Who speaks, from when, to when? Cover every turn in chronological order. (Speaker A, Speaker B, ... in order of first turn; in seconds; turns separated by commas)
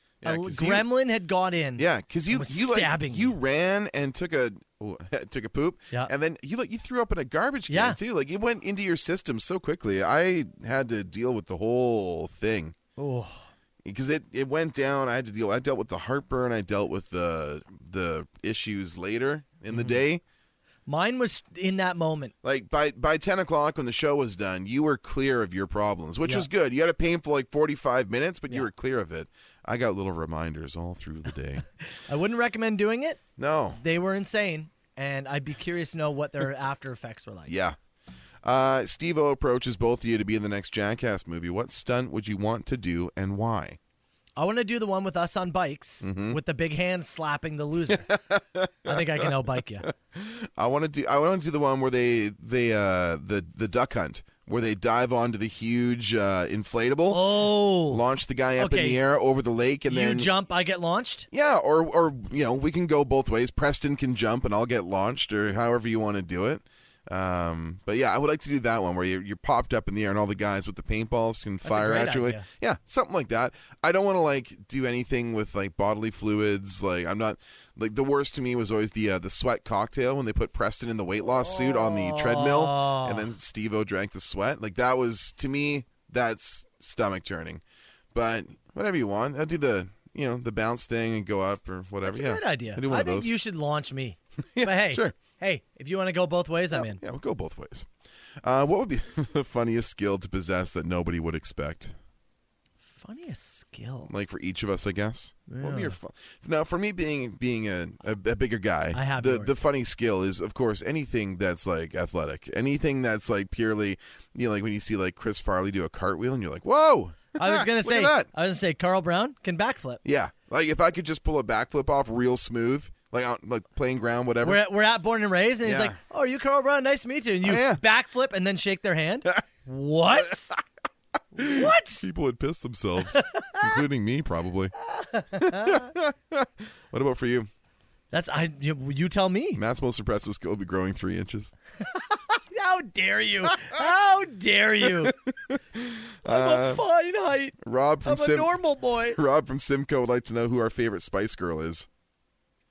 Speaker A: 0.2-0.9, Speaker B: 0.2-3.3, Speaker A: 1.8-12.8, Speaker B: 7.7-8.0, Speaker B: 13.0-13.5, Speaker A: 13.8-20.2, Speaker B: 19.7-20.0, Speaker B: 20.9-22.3, Speaker A: 22.4-31.6, Speaker B: 31.9-33.2, Speaker A: 33.4-33.8, Speaker B: 33.8-37.5, Speaker A: 37.5-37.8, Speaker A: 38.4-43.8, Speaker B: 44.4-48.1, Speaker A: 46.0-46.4, Speaker A: 47.9-60.3, Speaker B: 48.8-49.9, Speaker B: 57.1-58.0, Speaker B: 58.6-59.0, Speaker B: 59.9-61.3, Speaker A: 61.3-93.3, Speaker B: 71.6-72.5, Speaker B: 81.2-83.3, Speaker B: 92.0-97.0, Speaker A: 94.5-95.2, Speaker A: 96.7-97.9, Speaker A: 98.4-101.9, Speaker B: 102.9-104.1, Speaker A: 104.1-118.3, Speaker B: 105.5-106.0, Speaker B: 108.9-109.5, Speaker B: 117.3-120.0, Speaker A: 120.0-124.6, Speaker B: 124.4-130.5, Speaker A: 125.6-126.0, Speaker A: 127.4-127.8, Speaker A: 130.2-130.6, Speaker B: 131.3-132.1, Speaker A: 131.3-134.7, Speaker B: 133.1-133.8, Speaker B: 134.8-135.9, Speaker A: 135.3-137.5, Speaker B: 138.1-139.6, Speaker A: 139.5-141.5, Speaker B: 141.9-145.1, Speaker A: 144.8-146.8, Speaker B: 146.2-149.2, Speaker A: 147.6-151.9